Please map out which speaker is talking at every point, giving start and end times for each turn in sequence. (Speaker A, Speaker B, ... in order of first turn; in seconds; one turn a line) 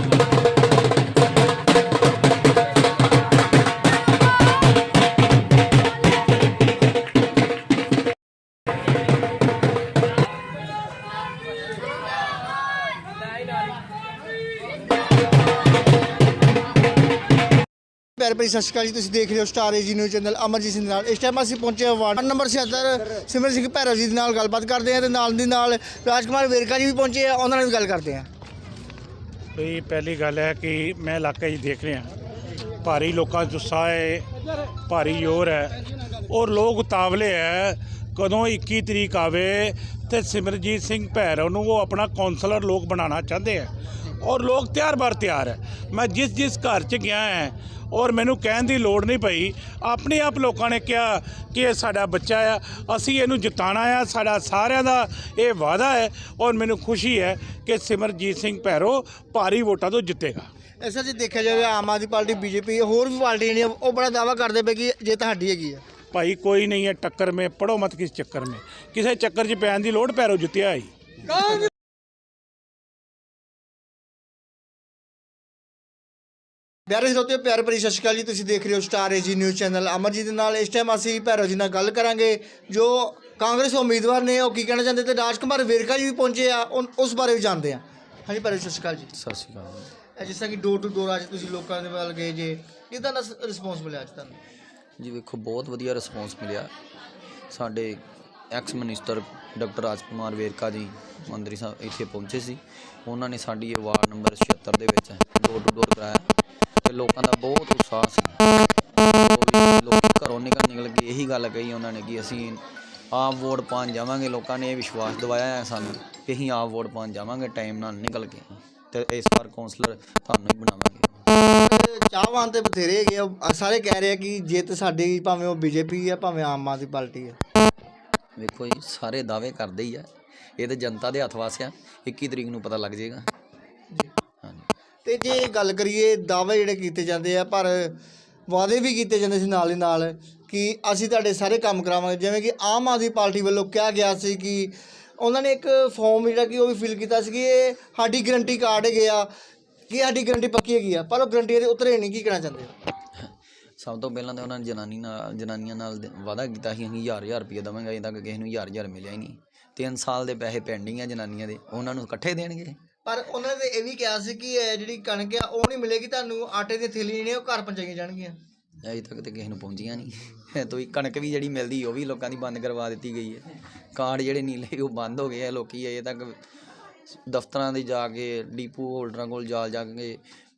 Speaker A: 18.2-28.3
Speaker B: 29.6-32.1
Speaker B: 32.8-34.3
Speaker B: 34.8-60.5
Speaker A: 60.8-65.8
Speaker B: 66.1-70.9
Speaker A: 76.9-89.1
Speaker C: 89.1-89.9
Speaker A: 90.2-94.4
Speaker C: 95.0-96.7
Speaker C: 97.5-106.3
Speaker C: 106.8-108.4
Speaker C: 109.0-121.2
Speaker A: 121.6-127.4
Speaker C: 128.4-133.3
Speaker A: 135.0-138.0
Speaker A: 138.5-149.3
Speaker A: 149.9-152.7
Speaker C: 153.2-162.8
Speaker A: 163.0-168.3
Speaker C: 168.8-176.4
Speaker C: 177.1-180.2